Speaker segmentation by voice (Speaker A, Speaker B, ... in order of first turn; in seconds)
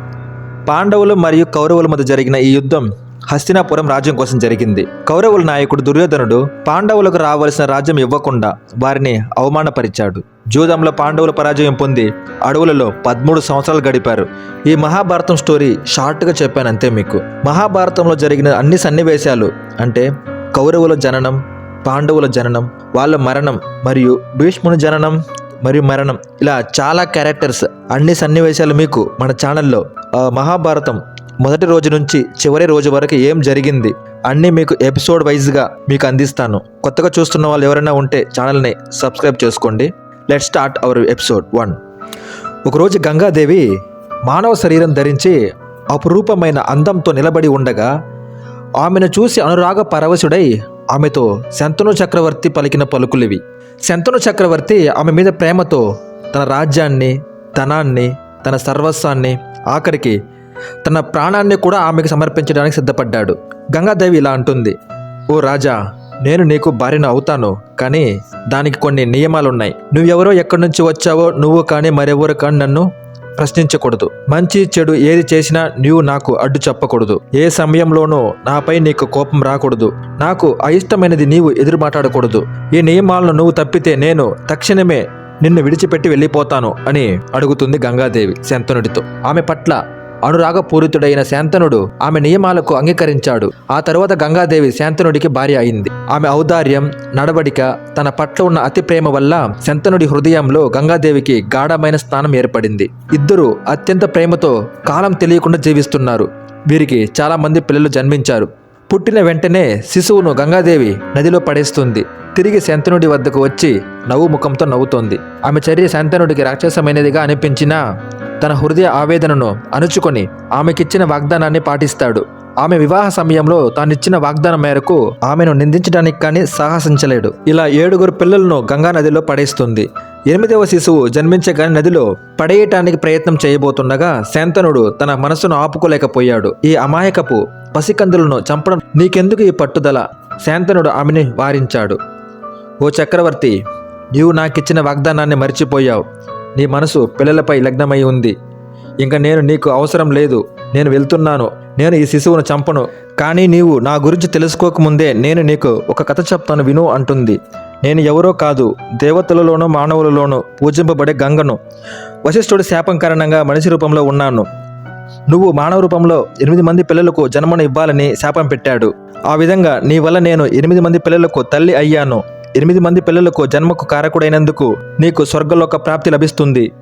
Speaker A: 0.7-41.8, 42.6-43.6, 44.2-45.4, 45.9-47.9, 48.8-60.2, 60.8-64.8, 65.3-117.8, 118.4-142.0, 142.8-143.6, 144.1-146.0, 146.6-148.3, 149.0-161.6, 162.2-164.5, 165.3-176.7